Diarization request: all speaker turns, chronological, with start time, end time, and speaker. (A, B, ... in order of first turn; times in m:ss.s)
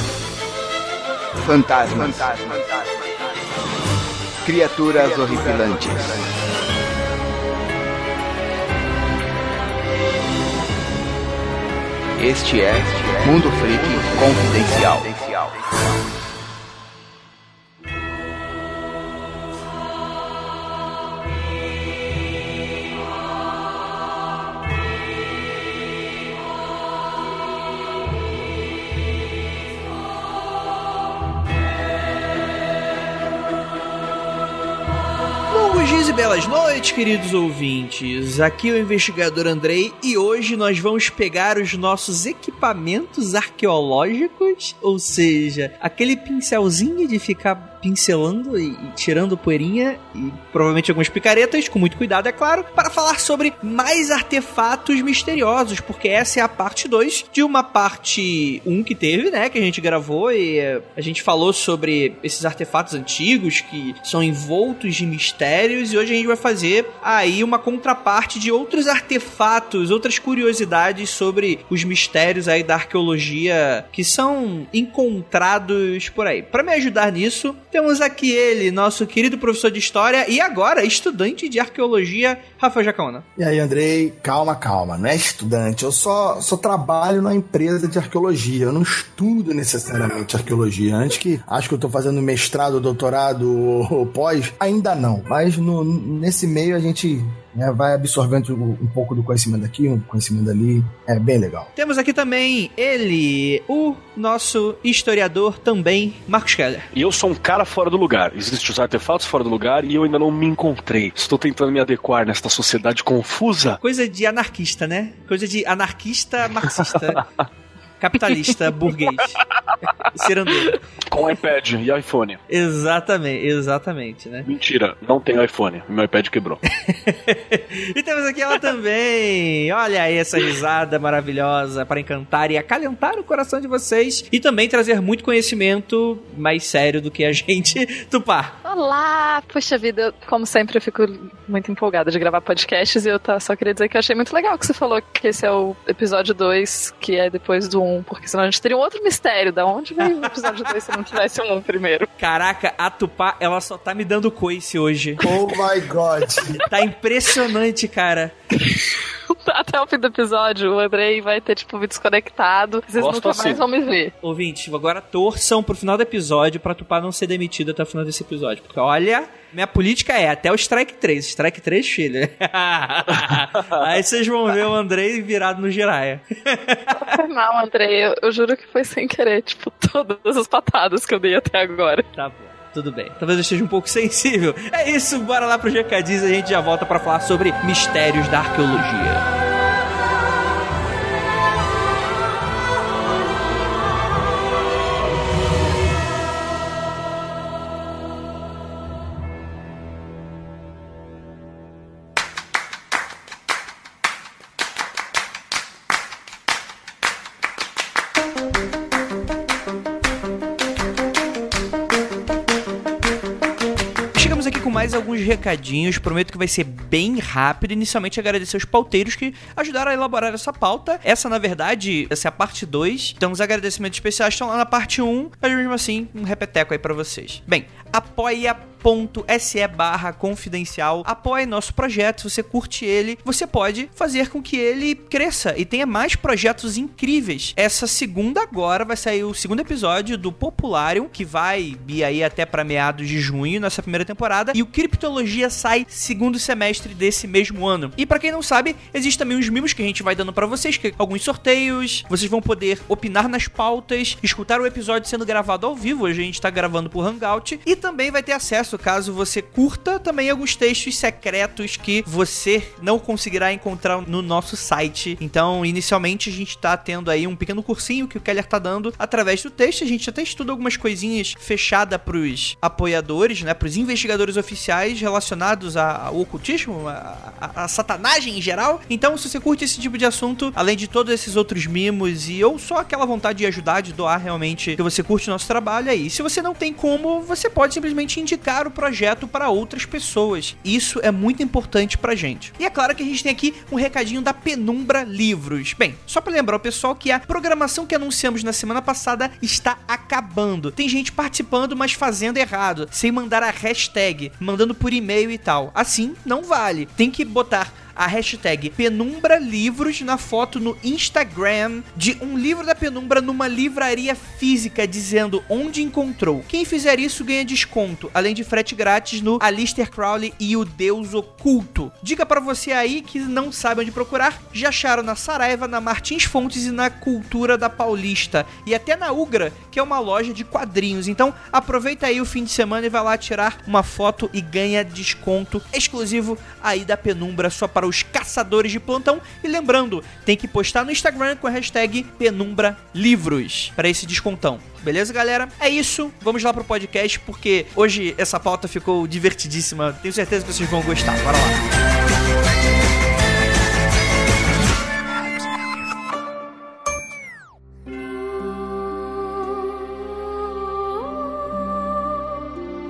0:01.4-0:02.8 A
0:04.4-0:06.3 A
0:12.2-0:15.6 A
0:35.5-1:23.2 B
1:23.4-1:41.7 C
1:41.8-1:46.9 B
1:46.9-1:53.8 D
1:53.8-1:57.3 B
1:56.6-1:57.2 D
1:58.0-1:59.4 B
1:59.6-1:59.9 D
2:00.0-2:00.8 B
2:01.1-2:02.4 D
2:02.5-2:04.5 B
2:04.4-2:06.6 D
2:06.8-2:18.6 B
2:18.6-2:32.1 E
2:30.0-2:30.8 B
2:32.2-2:35.3 B
2:35.2-2:36.6 C
2:36.6-2:38.3 B
2:39.3-2:44.1 E
2:43.0-2:43.6 D
2:44.2-2:57.2 B
2:53.1-2:53.9 D
2:57.0-3:02.1 E
3:02.2-3:09.3 B
3:34.2-5:51.7 B